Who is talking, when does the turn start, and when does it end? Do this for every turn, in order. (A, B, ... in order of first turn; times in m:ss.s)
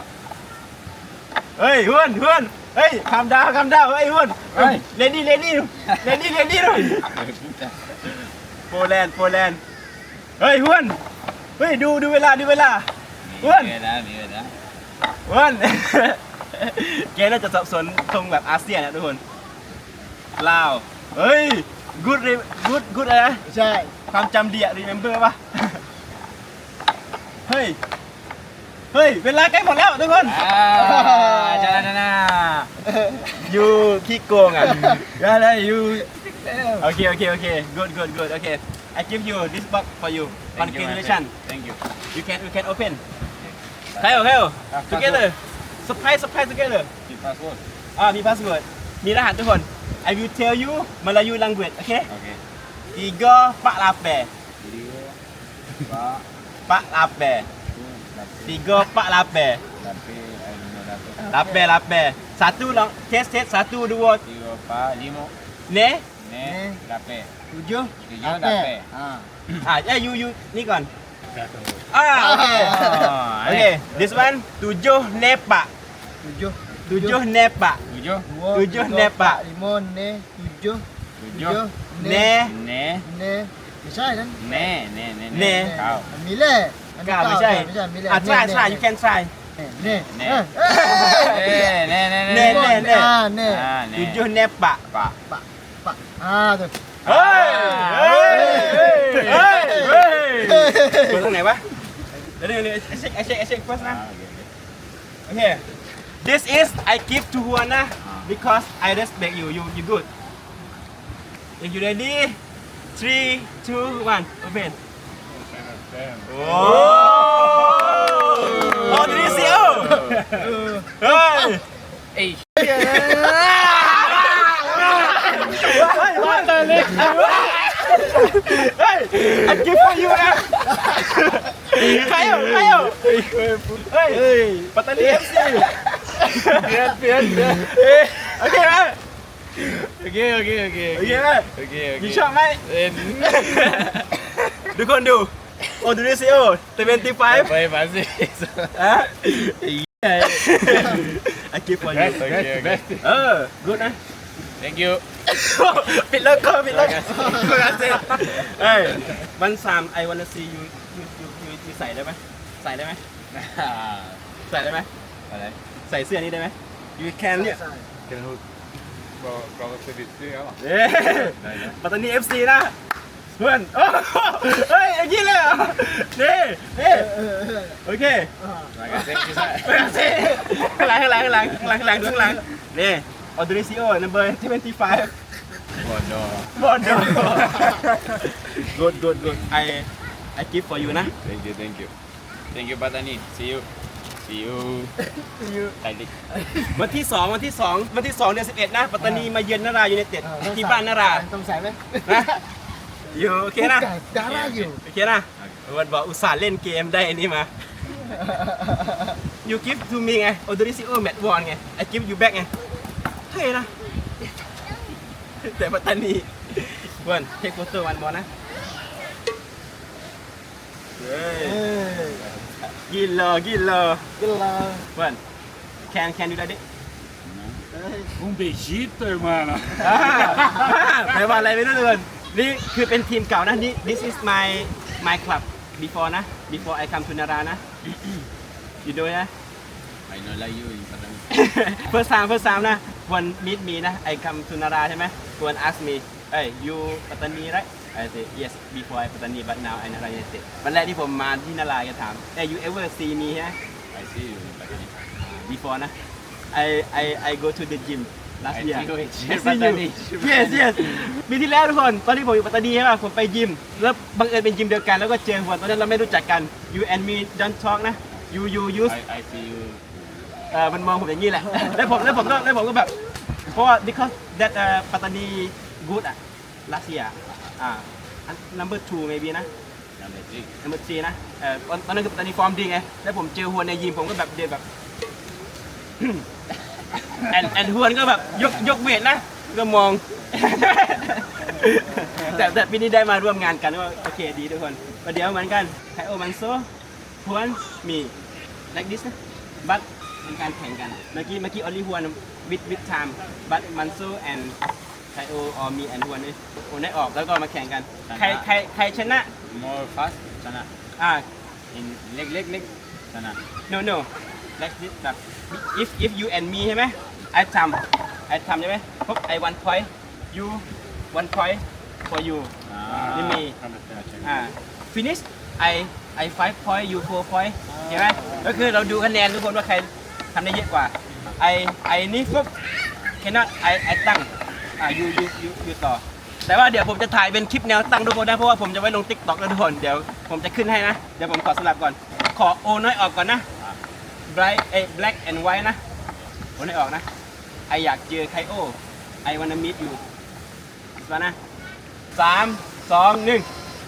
0:01.6-0:07.1 A
0:04.5-0:04.8 B
0:05.9-0:07.9 B
0:08.7-0:09.6 A
0:10.4-0:11.0 A
0:11.6-0:12.9 A
0:13.2-0:14.5 B
0:13.4-0:13.7 A
0:15.2-0:19.2 A
0:20.4-0:23.4 A
0:23.5-0:23.9 C
0:24.1-0:25.8 A
0:27.4-0:27.8 A
0:28.9-0:30.4 A
0:30.2-0:32.7 B
0:30.7-0:31.9 C
0:32.8-0:33.3 C
0:33.4-0:36.0 A
0:34.6-0:35.0 C
0:36.4-0:36.8 C
0:36.8-0:41.3 A
0:40.5-0:41.8 B
0:42.1-0:43.0 A
0:43.4-0:45.2 B
0:44.0-0:46.9 A
0:47.0-0:47.6 B
0:48.0-0:52.1 A
0:52.1-0:52.4 B
0:52.9-0:54.3 A
0:54.6-0:55.2 B
0:55.8-0:56.2 B
0:56.7-0:57.5 A
0:57.7-0:58.7 B
0:58.4-0:59.6 A
0:59.7-1:01.2 B
1:01.2-1:01.7 C
1:01.3-1:04.2 A
1:04.2-1:05.3 B
1:05.7-1:06.0 A
1:06.2-1:07.3 B
1:06.4-1:06.8 C
1:07.5-1:09.3 C
1:08.0-1:08.9 B
1:09.6-1:10.9 A
1:11.4-1:11.8 B
1:11.9-1:12.8 A
1:12.1-1:13.1 C
1:12.5-1:13.7 B
1:13.4-1:15.7 A
1:16.2-1:17.2 C
1:16.8-1:17.8 A
1:17.9-1:18.3 B
1:18.3-1:22.3 C
1:18.5-1:19.4 A
1:21.2-1:21.6 B
1:22.0-1:22.5 A
1:22.4-1:23.0 B
1:23.0-1:24.7 C
1:24.4-1:26.1 B
1:25.3-1:25.7 A
1:25.3-1:28.8 C
1:27.0-1:29.3 A
1:29.6-1:31.7 C
1:30.1-1:30.5 B
1:30.6-1:33.1 A
1:31.1-1:34.2 B
1:32.3-1:33.7 C
1:33.9-1:34.8 A
1:34.9-1:35.2 B
1:35.3-1:36.7 C
1:37.0-1:40.7 B
1:37.0-1:41.6 A
1:38.2-1:41.2 C
1:42.4-1:44.0 A
1:43.8-1:44.5 B
1:45.3-1:45.6 A
1:46.2-1:50.1 A
1:48.0-1:48.3 B
1:51.6-1:52.4 A
1:52.9-1:54.8 A
1:55.3-2:00.6 D
1:56.3-2:00.0 A
1:56.5-2:00.4 B
2:00.3-2:01.4 C
2:01.0-2:01.6 A
2:02.1-2:08.2 B
2:02.6-2:13.1 A
2:02.6-2:03.4 C
2:06.4-2:06.8 D
2:11.8-2:12.2 B
2:12.9-2:14.3 B
2:13.8-2:16.8 A
2:16.5-2:18.3 B
2:16.6-2:17.0 D
2:17.3-2:19.0 A
2:19.6-2:24.0 B
2:20.9-2:24.1 A
2:24.7-2:27.6 A
2:27.0-2:28.8 B
2:28.7-2:29.6 A
2:29.9-2:31.0 B
2:30.2-2:32.4 A
2:31.8-2:33.0 B
2:31.9-2:33.0 D
2:33.0-2:34.0 A
2:34.6-2:35.0 B
2:35.3-2:43.0 A
2:36.7-2:38.3 B
2:37.1-2:37.6 C
2:43.3-2:44.2 B
2:44.5-2:44.9 A
2:45.3-2:45.6 B
2:45.9-2:47.6 A
2:47.3-2:47.8 C
2:48.1-2:48.4 D
2:49.2-2:50.6 D
2:50.6-2:52.7 A
2:51.1-2:51.8 B
2:53.4-2:57.2 A
2:56.9-2:57.8 C
2:57.7-2:58.3 A
2:58.4-2:58.7 C
2:58.7-3:00.0 B
2:59.5-3:05.1 A
3:05.8-3:07.4 B
3:06.5-3:11.1 A
3:10.9-3:11.9 B
3:12.5-3:13.7 B
3:14.2-3:14.9 B
3:15.2-3:15.7 C
3:15.8-3:16.3 B
3:16.7-3:21.2 A
3:20.2-3:22.3 C
3:22.0-3:22.4 A
3:23.1-3:27.5 A
3:23.6-3:24.8 C
3:28.1-3:29.1 C
3:29.4-3:32.5 A
3:33.3-3:33.7 A
3:35.4-3:38.3 A
3:41.0-3:41.6 A
3:41.4-3:42.2 C
3:42.0-3:42.5 B
3:42.9-3:44.0 A
3:44.2-3:44.9 C
3:44.9-3:45.2 A
3:45.9-3:46.6 A
3:47.2-3:47.6 B
3:47.7-3:48.1 C
3:48.2-3:50.7 D
3:49.8-3:57.6 A
3:58.8-3:59.3 A
4:00.1-4:01.2 B
4:01.3-4:13.6 A
4:13.9-4:15.0 B
4:15.2-4:15.9 A
4:16.5-4:29.0 A
4:18.5-4:21.1 B
4:28.8-4:30.4 B
4:30.5-4:32.9 A
4:33.5-4:39.5 A
4:40.0-4:40.5 B
4:40.6-4:44.6 A
4:46.0-4:46.2 A
4:47.3-4:56.7 A
4:57.2-4:58.1 A
4:58.7-5:04.6 A
5:05.1-5:09.3 A
5:08.1-5:08.5 B
5:09.4-5:10.7 B
5:11.0-5:11.2 A
5:11.7-5:13.4 B
5:13.7-5:22.5 A
5:22.6-5:23.4 B
5:22.8-5:24.3 D
5:23.1-5:23.5 A
5:24.2-5:32.5 A
5:33.2-5:43.4 A
5:44.3-5:45.8 A
5:46.6-5:47.0 A
5:47.7-5:50.0 A
5:51.0-5:51.4 A
5:52.1-5:53.5 A